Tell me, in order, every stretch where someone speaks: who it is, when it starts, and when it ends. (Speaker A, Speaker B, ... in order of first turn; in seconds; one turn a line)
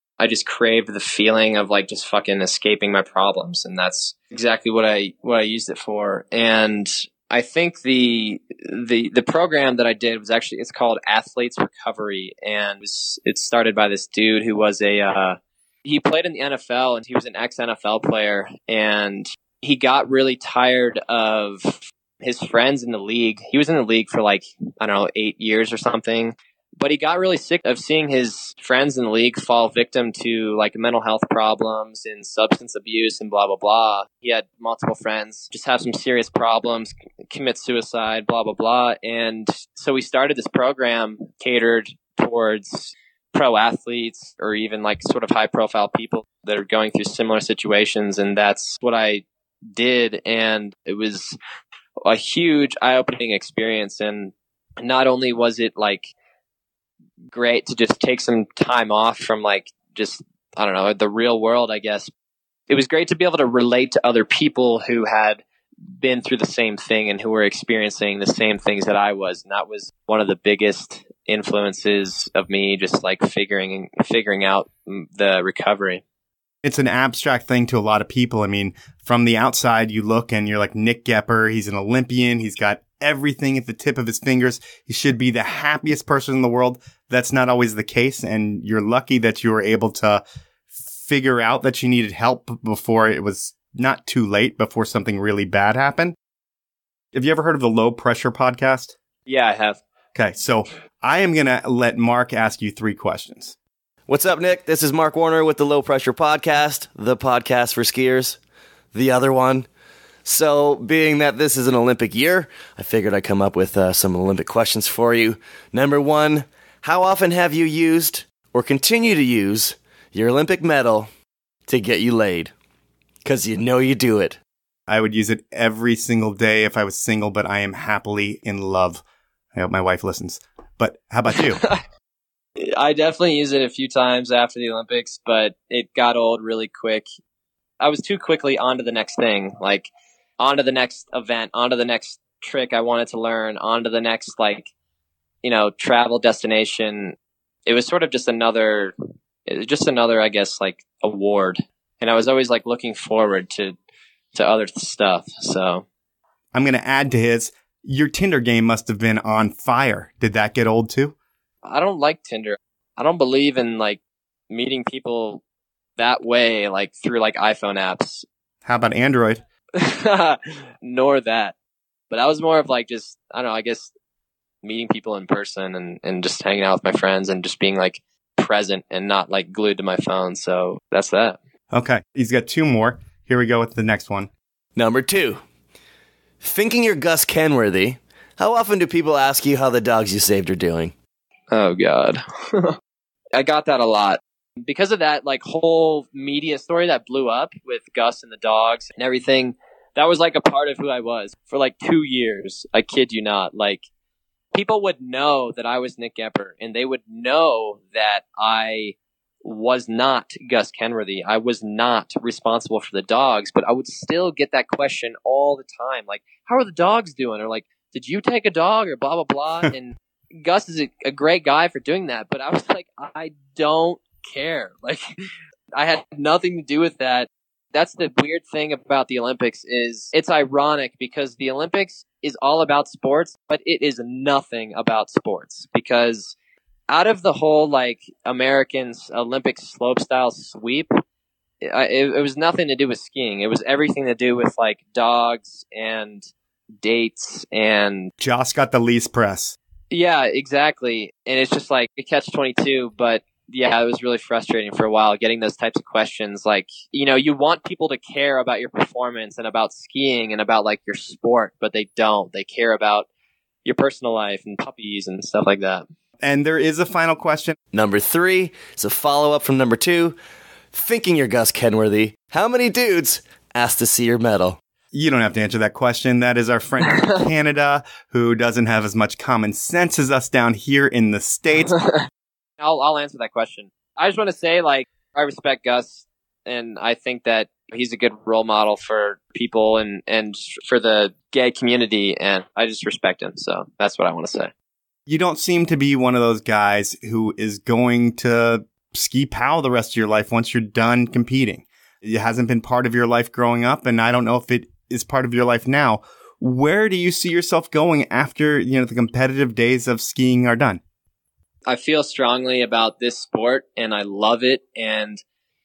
Speaker A: 0.2-51.4
Speaker A: 52.0-56.1
Speaker A: 57.3-62.1
Speaker A: 62.7-65.4
Speaker A: 66.0-76.0
Speaker B: 76.6-90.2
Speaker B: 91.0-96.2
Speaker B: 97.1-99.0
Speaker A: 99.3-99.8
Speaker B: 100.1-103.5
Speaker C: 104.1-108.4
Speaker C: 108.9-109.7
Speaker C: 110.2-121.1
Speaker C: 121.7-122.5
Speaker C: 123.2-124.4
Speaker B: 124.9-129.0
Speaker B: 129.5-131.6
Speaker A: 131.3-131.8
Speaker A: 132.6-137.1
Speaker A: 137.8-144.7
Speaker A: 145.4-148.9
Speaker A: 149.5-153.8
Speaker A: 154.3-155.8
Speaker B: 156.5-161.1
Speaker A: 161.6-165.4
Speaker A: 166.0-168.2
Speaker B: 168.6-169.4
Speaker A: 169.8-171.5
Speaker A: 172.1-173.9
Speaker A: 174.6-181.4
Speaker B: 181.7-184.3
Speaker C: 184.8-185.4
Speaker C: 186.4-190.9
Speaker A: 191.5-192.8
Speaker A: 193.3-203.8
Speaker A: 204.5-225.1
Speaker A: 225.7-236.3
Speaker A: 236.9-240.9
Speaker A: 241.6-246.3
Speaker A: 246.8-248.1
Speaker B: 248.2-249.6
Speaker A: 249.9-263.1
Speaker A: 263.6-265.9
Speaker B: 266.2-267.6
Speaker C: 267.7-270.1
Speaker C: 270.7-274.6
Speaker B: 274.9-281.8
Speaker A: 276.9-277.2
Speaker A: 281.7-282.0
Speaker A: 282.6-294.5
Speaker B: 295.1-310.8
Speaker A: 311.7-315.2